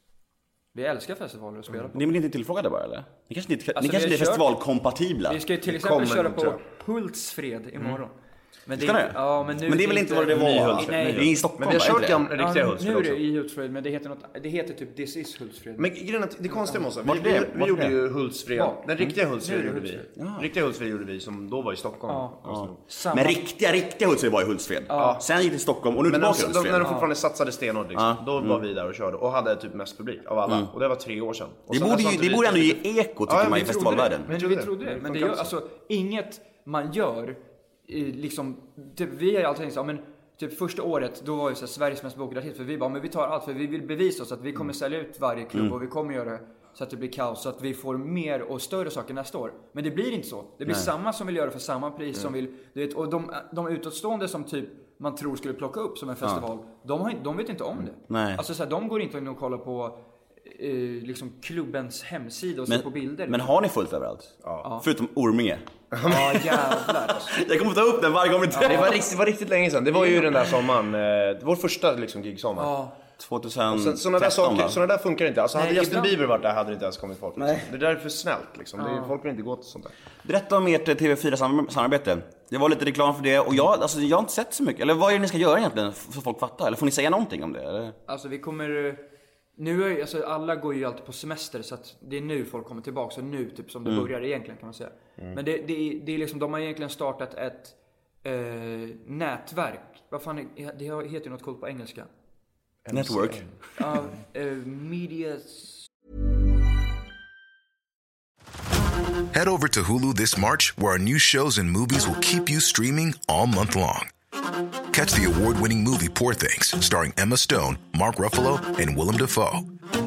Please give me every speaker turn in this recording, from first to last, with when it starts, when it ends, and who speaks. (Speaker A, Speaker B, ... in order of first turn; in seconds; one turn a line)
Speaker A: 0.7-2.0
Speaker B: 1.9-5.4
Speaker A: 3.8-4.5
Speaker A: 5.3-8.1
Speaker C: 5.7-6.6
Speaker A: 8.7-11.3
Speaker B: 8.8-12.2
Speaker C: 10.3-13.2
Speaker A: 12.3-15.9
Speaker C: 15.8-22.8
Speaker A: 16.5-16.9
Speaker B: 17.0-18.0
Speaker A: 18.6-20.1
Speaker B: 20.2-20.5
Speaker A: 22.1-23.4
Speaker B: 22.5-26.9
Speaker A: 24.9-25.2
Speaker C: 24.9-25.2
Speaker C: 26.1-35.5
Speaker A: 26.8-27.1
Speaker B: 27.9-28.6
Speaker B: 31.7-34.3
Speaker A: 33.5-63.5
Speaker B: 58.1-58.4
Speaker B: 62.7-69.0
Speaker C: 65.9-66.7
Speaker A: 66.0-67.4
Speaker A: 68.5-69.0
Speaker C: 68.6-72.7
Speaker A: 70.0-70.5
Speaker A: 72.6-73.0
Speaker B: 73.2-74.8
Speaker C: 73.7-79.9
Speaker A: 75.5-76.2
Speaker B: 77.4-77.7
Speaker A: 78.8-79.1
Speaker B: 80.2-88.0
Speaker A: 88.1-89.0
Speaker A: 89.6-102.1
Speaker C: 102.8-103.5
Speaker B: 102.9-103.5
Speaker A: 103.8-105.8
Speaker D: 109.3-114.1
Speaker D: 114.9-119.7